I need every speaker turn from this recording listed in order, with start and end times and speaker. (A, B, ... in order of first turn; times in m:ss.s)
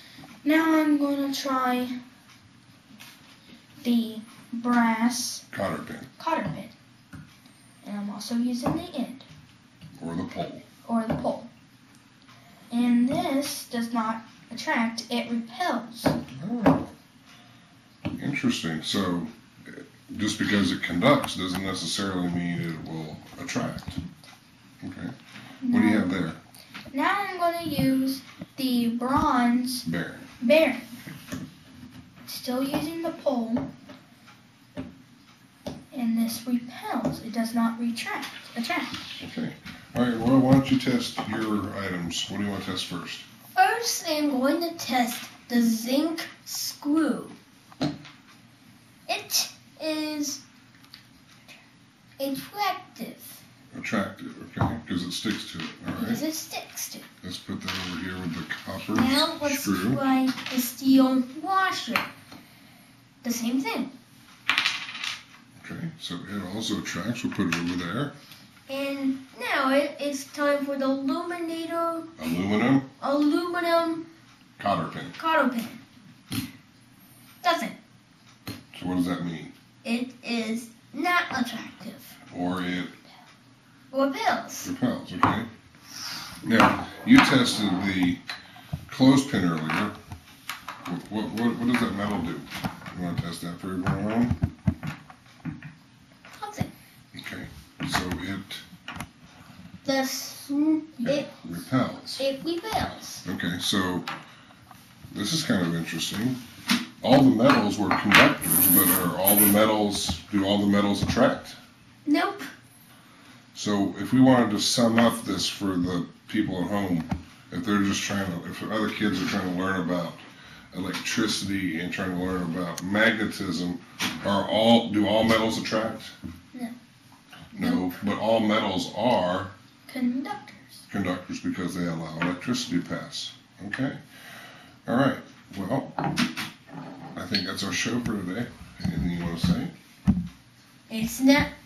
0:00.4-0:01.9 A
0:03.8-0:05.4 A
0:05.5-0:06.1 B
0:06.2-0:06.7 A
0:07.8-0:09.3 A
0:10.0-0:10.6 B
0:10.8-0:11.5 A
0:12.7-0:16.2 A
0:16.4-0:16.9 B
0:18.2-0:24.0 B
0:24.8-0:25.1 B
0:25.6-0:26.2 A
0:25.7-0:26.4 B
0:26.9-0:29.9 A
0:29.8-0:30.3 B
0:30.4-0:30.9 A
0:32.3-0:33.7 A
0:35.9-0:39.0 A
0:39.2-0:43.2 B
0:43.6-0:47.4 C
0:49.1-0:50.4 C
0:52.2-0:53.4 C
0:53.7-0:56.2 B
0:56.0-0:57.0 C
0:57.2-1:00.0 B
0:58.9-1:02.1 C
1:03.2-1:03.9 C
1:05.6-1:08.1 B
1:08.7-1:12.1 C
1:12.2-1:12.9 B
1:13.0-1:14.0 C
1:14.6-1:15.2 B
1:15.2-1:15.8 C
1:17.4-1:17.8 C
1:18.7-1:19.5 B
1:19.8-1:22.2 C
1:22.3-1:22.9 B
1:23.9-1:24.7 C
1:24.6-1:25.5 B
1:26.4-1:28.2 B
1:28.9-1:30.0 B
1:30.8-1:34.4 B
1:36.3-1:36.7 C
1:37.1-1:38.6 B
1:39.8-1:41.3 C
1:41.0-1:42.2 B
1:42.2-1:43.2 C
1:43.2-1:44.1 B
1:45.1-1:46.4 B
1:47.0-1:51.6 B
1:52.0-1:52.5 C
1:53.5-2:00.2 B
2:00.7-2:06.1 B
2:07.5-2:09.5 B
2:09.9-2:10.8 A
2:10.9-2:14.0 B
2:14.9-2:16.0 B
2:17.2-2:19.7 B
2:20.9-2:21.5 C